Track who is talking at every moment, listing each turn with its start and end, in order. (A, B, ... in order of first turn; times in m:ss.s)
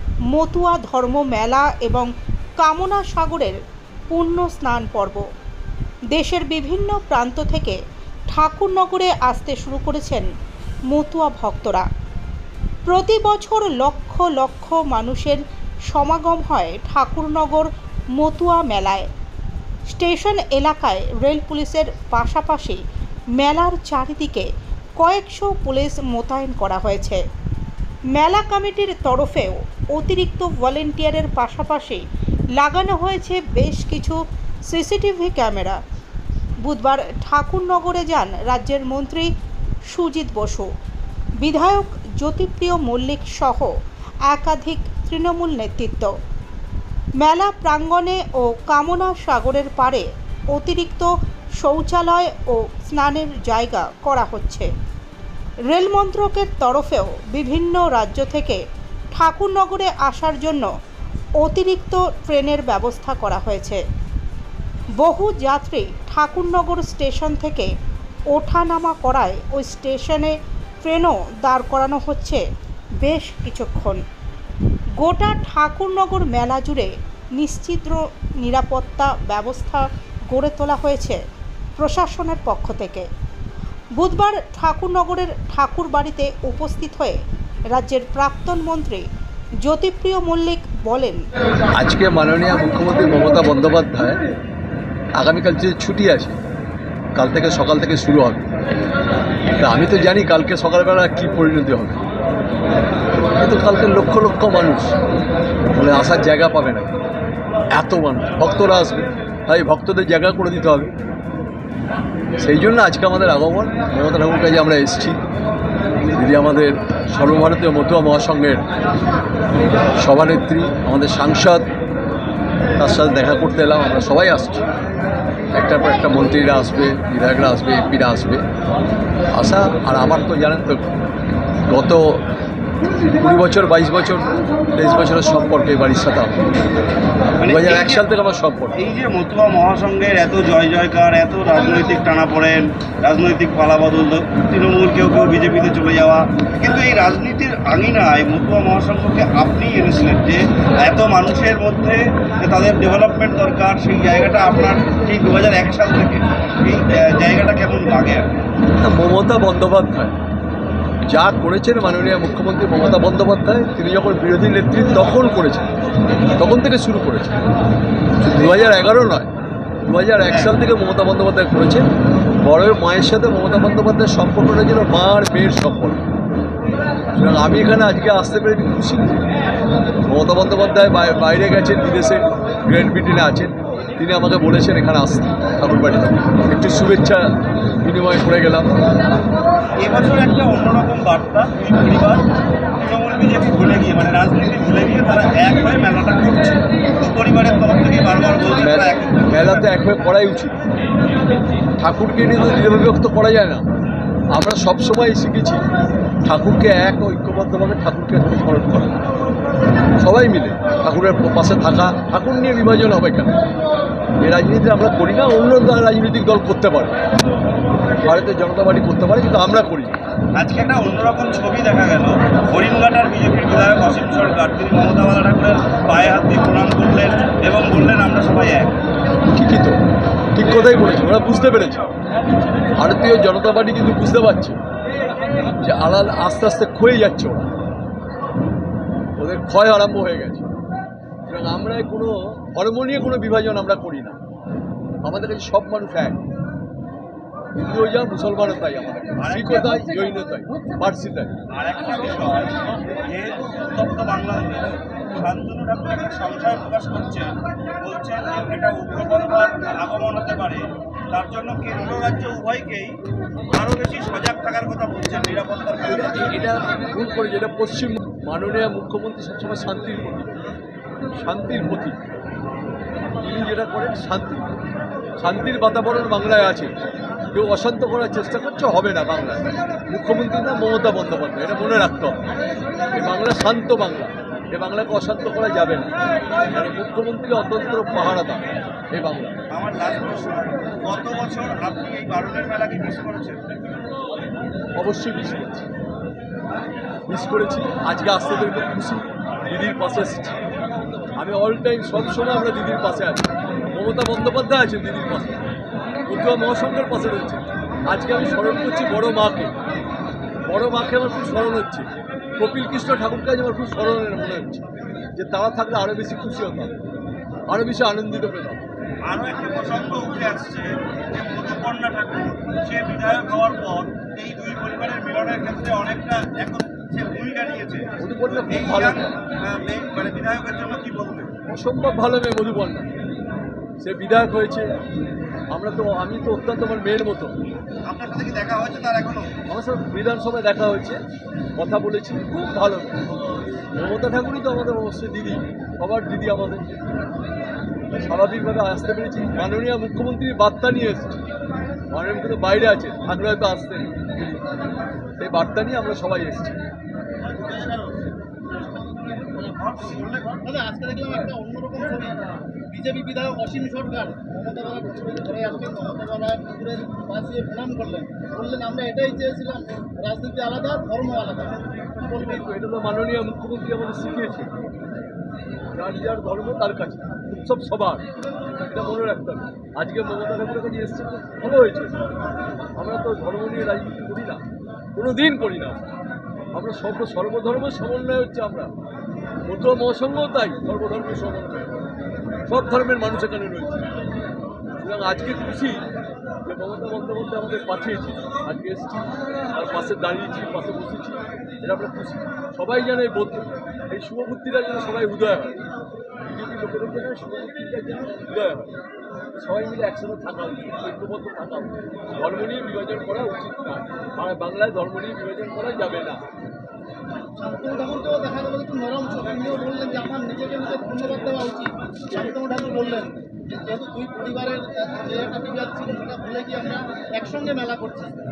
0:00.3-0:02.1 A
0:02.6-0:03.6 A
0:04.1-0:05.2 A
0:06.1-0:07.8 A
0:08.3-0:10.3 A
0:10.9-0:11.9 A
0:12.9-0:19.1 A
0:19.9-0:22.8 A
0:23.4-0:27.2 A
0:28.1-0:32.0 A
0:32.6-0:35.8 A
0:36.6-0:39.3 A
0:39.9-0:40.7 A
0:41.4-0:43.7 A
0:44.3-0:46.1 A
0:47.2-0:51.1 A
0:51.6-0:54.7 A
0:55.7-0:58.6 A
0:59.1-1:00.7 A
1:01.4-1:03.8 A
1:05.0-1:07.7 A
1:08.3-1:12.4 A
1:13.0-1:14.0 A
1:15.0-1:21.2 A
1:21.8-1:23.1 A
1:24.0-1:27.2 A
1:27.7-1:29.0 A
1:29.6-1:31.2 A
1:31.7-1:34.2 B
1:35.2-1:36.4 B
1:37.2-1:38.5 B
1:39.6-1:42.0 B
1:43.4-1:45.0 B
1:45.7-1:46.9 B
1:47.8-1:50.9 B
1:52.4-1:55.2 B
1:56.1-1:58.6 B
2:00.0-2:01.7 B
2:02.8-2:04.7 B
2:05.6-2:08.4 B
2:09.3-2:10.9 B
2:11.7-2:12.2 B
2:13.2-2:16.5 B
2:17.3-2:18.8 B
2:17.4-2:18.0 C
2:18.8-2:38.3 C
2:38.8-2:40.1 B
2:41.1-2:45.7 B
2:46.4-2:47.4 B
2:48.2-2:49.3 B
2:49.9-2:51.9 B
2:50.3-2:50.5 C
2:52.4-2:56.0 B
2:57.2-2:59.2 B
3:00.1-3:08.8 B
3:09.8-3:12.2 C
3:12.8-3:19.6 C
3:18.5-3:20.6 B
3:21.8-3:23.6 B
3:24.3-3:25.6 B
3:26.2-3:29.0 B
3:30.0-3:33.3 B
3:34.2-3:37.0 B
3:38.0-3:40.0 B
3:40.4-3:48.8 C
3:49.3-3:49.8 B
3:50.3-3:51.8 B
3:52.8-3:54.6 B
3:55.6-3:57.5 B
3:59.2-4:00.5 B
4:01.3-4:04.2 B
4:05.0-4:06.2 B
4:07.6-4:11.3 B
4:09.2-4:09.8 C
4:11.5-4:23.0 C
4:23.5-4:26.3 C
4:26.1-4:30.4 B
4:31.2-4:32.0 B
4:33.2-4:34.5 B
4:35.2-4:36.7 B
4:37.3-4:42.2 B
4:42.9-4:45.9 B
4:46.5-4:49.4 B
4:49.5-4:53.4 C
4:54.8-4:55.7 B
4:57.1-5:00.4 B
5:01.2-5:05.4 B
5:06.1-5:09.5 B
5:10.5-5:14.6 B
5:15.2-5:16.7 B
5:17.5-5:18.6 B
5:19.1-5:31.3 C
5:28.0-5:29.2 B
5:31.5-5:32.9 B
5:33.8-5:34.7 B
5:35.5-5:37.3 B
5:37.9-5:39.3 C
5:39.5-5:41.0 B
5:41.6-5:43.0 B
5:43.7-5:46.7 B
5:47.9-5:51.2 B
5:51.9-5:54.4 B
5:55.2-5:56.6 B
5:57.2-5:58.1 C
5:59.2-6:00.5 C
6:00.4-6:02.2 D
6:02.7-6:11.6 D
6:12.1-6:14.5 B
6:15.7-6:18.0 B
6:18.6-6:22.0 B
6:22.8-6:24.4 B
6:25.0-6:25.9 B
6:26.6-6:28.7 B
6:29.5-6:31.8 B
6:32.5-6:33.9 B
6:34.8-6:35.8 B
6:36.4-6:45.6 B
6:46.3-6:48.7 B
6:49.4-6:56.2 B
6:57.4-7:08.1 D